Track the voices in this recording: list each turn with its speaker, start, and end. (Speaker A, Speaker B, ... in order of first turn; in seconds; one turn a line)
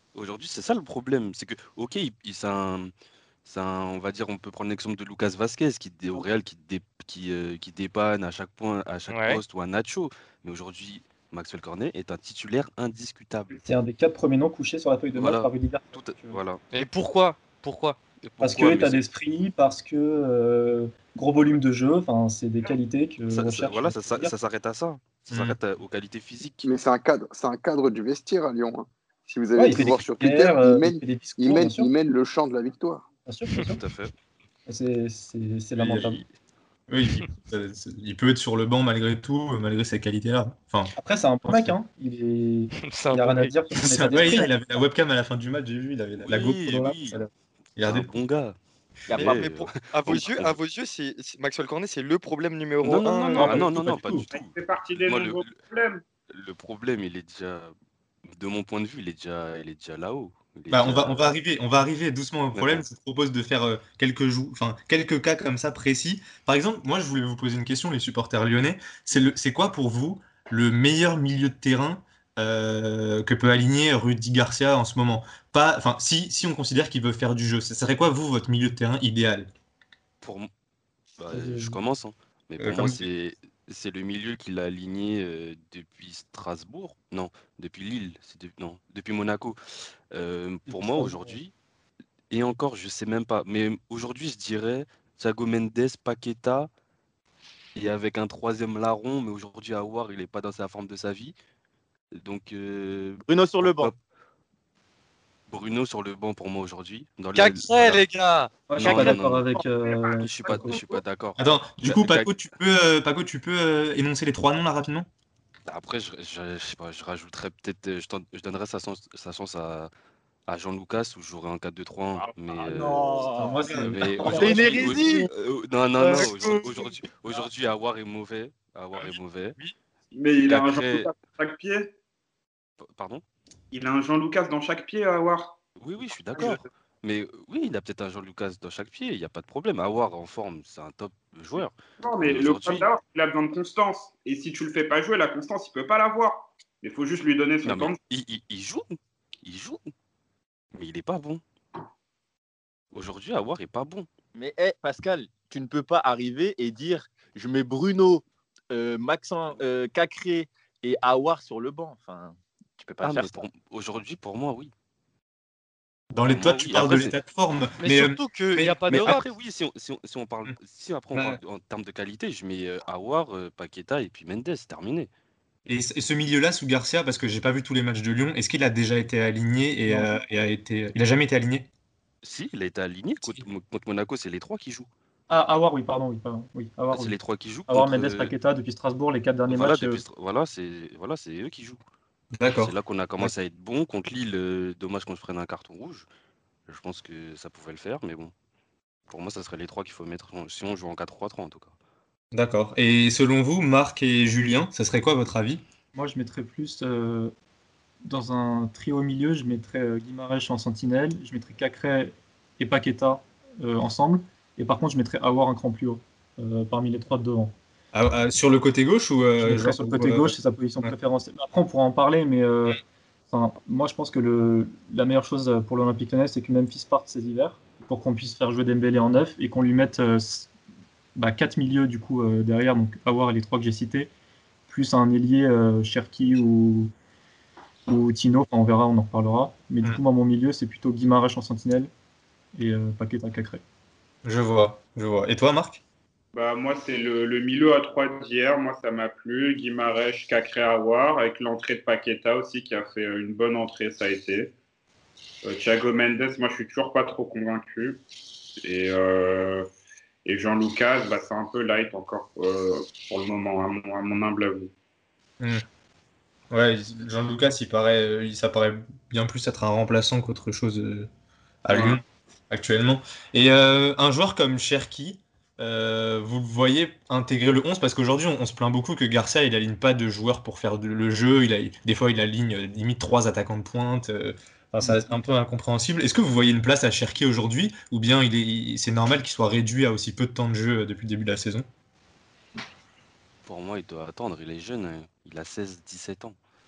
Speaker A: 0.1-2.9
Speaker A: 3.5-13.6
Speaker B: 9.1-9.4
Speaker C: 13.7-16.4
Speaker A: 15.2-16.6
Speaker B: 16.7-18.0
Speaker A: 18.2-19.0
Speaker C: 18.4-24.3
Speaker A: 23.3-26.7
Speaker D: 25.3-25.6
Speaker E: 26.6-33.0
Speaker C: 29.6-31.9
Speaker C: 33.3-33.8
Speaker A: 33.6-34.1
Speaker C: 34.7-36.2
Speaker D: 35.8-36.2
Speaker D: 36.9-40.9
Speaker C: 41.0-44.5
Speaker D: 41.5-41.8
Speaker B: 42.8-43.5
Speaker D: 43.8-48.1
Speaker A: 46.2-47.2
Speaker A: 47.8-48.6
Speaker F: 49.1-49.4
Speaker A: 49.1-50.5
Speaker G: 49.2-53.6
Speaker A: 52.8-55.6
Speaker D: 53.4-54.2
Speaker H: 54.3-56.0
Speaker A: 56.3-57.7
Speaker A: 58.3-61.3
Speaker D: 60.7-79.5
Speaker A: 62.5-62.8
Speaker A: 80.2-80.5
Speaker A: 81.2-89.6
Speaker C: 81.3-81.8
Speaker D: 82.6-83.0
Speaker A: 90.1-91.5
Speaker C: 90.7-91.3
Speaker A: 92.3-96.7
Speaker A: 97.8-101.3
Speaker A: 102.1-104.0
Speaker F: 103.3-103.9
Speaker A: 105.5-108.0
Speaker B: 107.3-109.2
Speaker C: 108.7-110.8
Speaker A: 108.8-112.3
Speaker D: 111.4-115.1
Speaker A: 115.7-119.9
Speaker A: 120.5-129.6
Speaker F: 122.8-123.5
Speaker C: 123.3-124.9
Speaker D: 123.7-124.4
Speaker F: 124.2-125.3
Speaker B: 126.0-126.7
Speaker H: 130.1-131.9
Speaker A: 130.5-131.1
Speaker A: 132.8-133.2
Speaker H: 133.7-135.6
Speaker A: 135.8-142.9
Speaker H: 136.3-136.6
Speaker H: 142.0-148.0
Speaker A: 147.6-149.9
Speaker A: 150.8-151.4
Speaker A: 152.9-154.1
Speaker F: 154.3-163.5
Speaker A: 163.0-164.7
Speaker D: 166.1-169.2
Speaker A: 166.3-167.1
Speaker B: 167.8-169.3
Speaker A: 168.9-175.1
Speaker D: 171.1-171.4
Speaker D: 175.7-181.7
Speaker A: 182.2-184.9
Speaker C: 185.3-190.0
Speaker A: 186.9-188.3
Speaker A: 189.5-191.8
Speaker D: 192.4-193.3
Speaker A: 192.5-196.1
Speaker A: 196.7-198.3
Speaker A: 199.1-201.8
Speaker D: 202.3-205.6
Speaker C: 205.9-207.3
Speaker C: 208.1-217.6
Speaker D: 217.9-220.9
Speaker C: 219.4-222.8
Speaker C: 223.3-230.5
Speaker C: 231.2-234.1
Speaker C: 234.7-236.9
Speaker C: 237.9-241.9
Speaker C: 242.6-243.6
Speaker D: 244.2-245.8
Speaker H: 246.3-254.5
Speaker H: 255.4-258.0
Speaker H: 258.6-259.7
Speaker H: 260.2-264.7
Speaker D: 266.5-271.1
Speaker D: 271.6-291.7
Speaker H: 271.7-272.0
Speaker A: 293.4-296.4